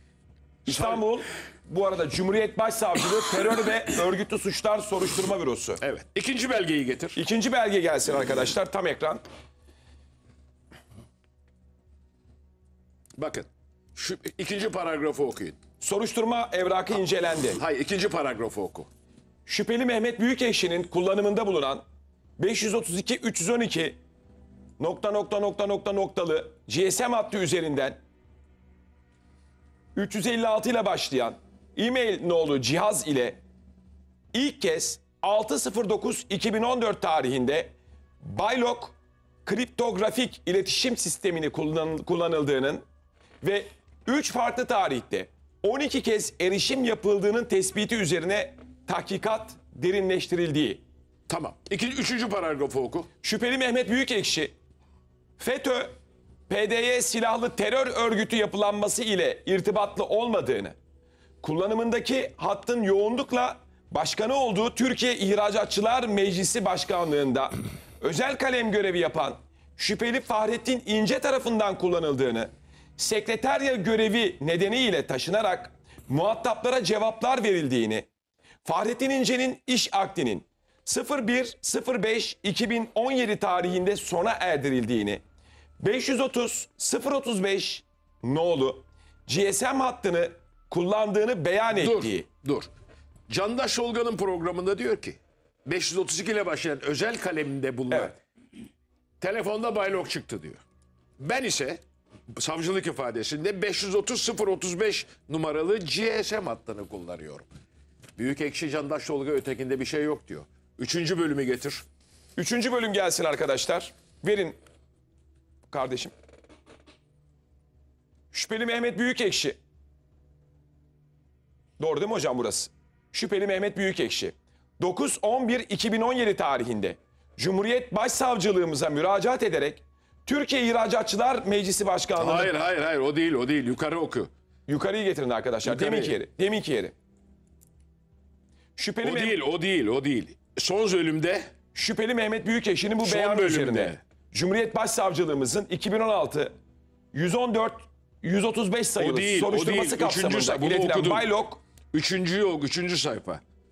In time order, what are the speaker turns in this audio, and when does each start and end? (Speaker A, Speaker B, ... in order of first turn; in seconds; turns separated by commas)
Speaker A: 0.7-5.8, Speaker B: 0.7-1.0, Speaker B: 5.8-7.2, Speaker A: 7.1-9.2, Speaker B: 13.2-15.6, Speaker A: 15.8-17.6, Speaker B: 17.6-18.9, Speaker A: 19.5-21.8, Speaker A: 22.4-24.0, Speaker A: 24.8-28.0, Speaker A: 29.9-33.4, Speaker A: 34.3-42.8, Speaker A: 43.4-50.8, Speaker B: 51.3-53.1, Speaker A: 53.2-54.5, Speaker A: 55.4-56.0, Speaker A: 56.5-60.8, Speaker A: 61.4-78.1, Speaker A: 78.6-85.2, Speaker A: 85.8-92.3, Speaker B: 91.7-92.7, Speaker B: 93.3-98.2, Speaker B: 99.2-100.6, Speaker B: 101.2-101.8, Speaker B: 102.3-107.5, Speaker B: 108.2-111.8, Speaker A: 112.3-114.6, Speaker A: 115.7-116.1, Speaker A: 118.3-119.6, Speaker A: 121.8-132.5, Speaker B: 132.2-134.3, Speaker A: 134.7-136.9, Speaker B: 135.6-136.1, Speaker A: 138.8-139.4, Speaker B: 139.0-141.5, Speaker A: 141.7-146.5, Speaker B: 143.0-144.0, Speaker A: 147.1-151.6, Speaker B: 149.0-151.3, Speaker B: 151.9-153.4